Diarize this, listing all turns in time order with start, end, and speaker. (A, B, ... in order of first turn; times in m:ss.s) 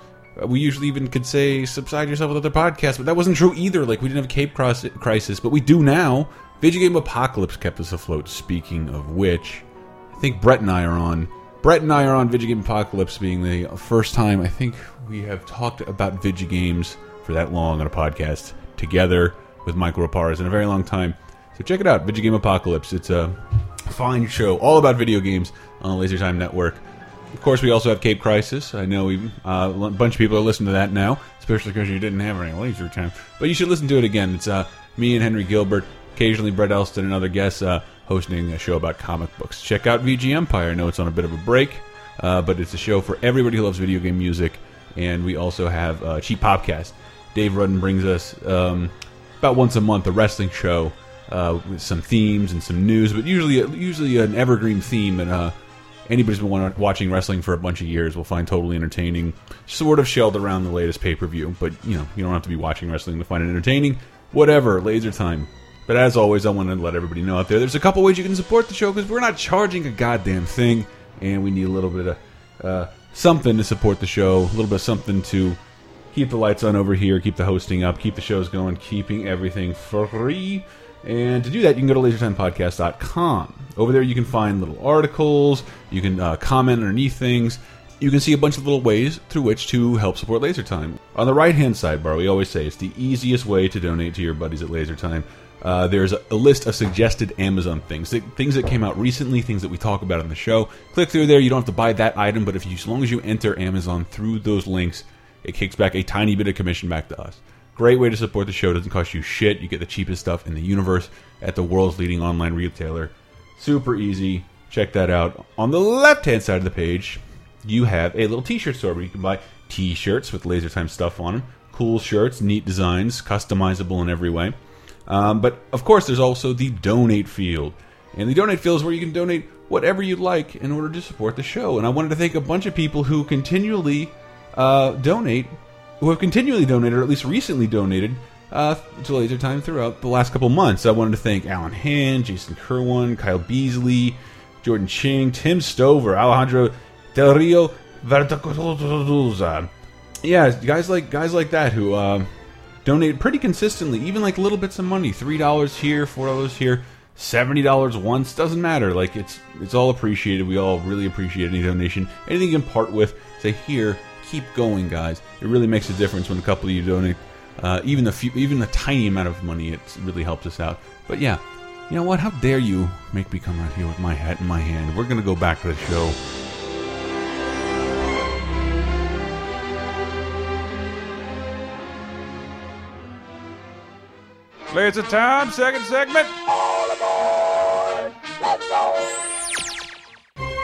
0:00.4-0:55.6 A
0:56.1-1:15.6 A
1:16.1-2:04.6 A
2:05.1-2:29.7 A
2:30.2-2:32.3 A
2:32.8-2:56.2 A
3:04.7-3:06.4 A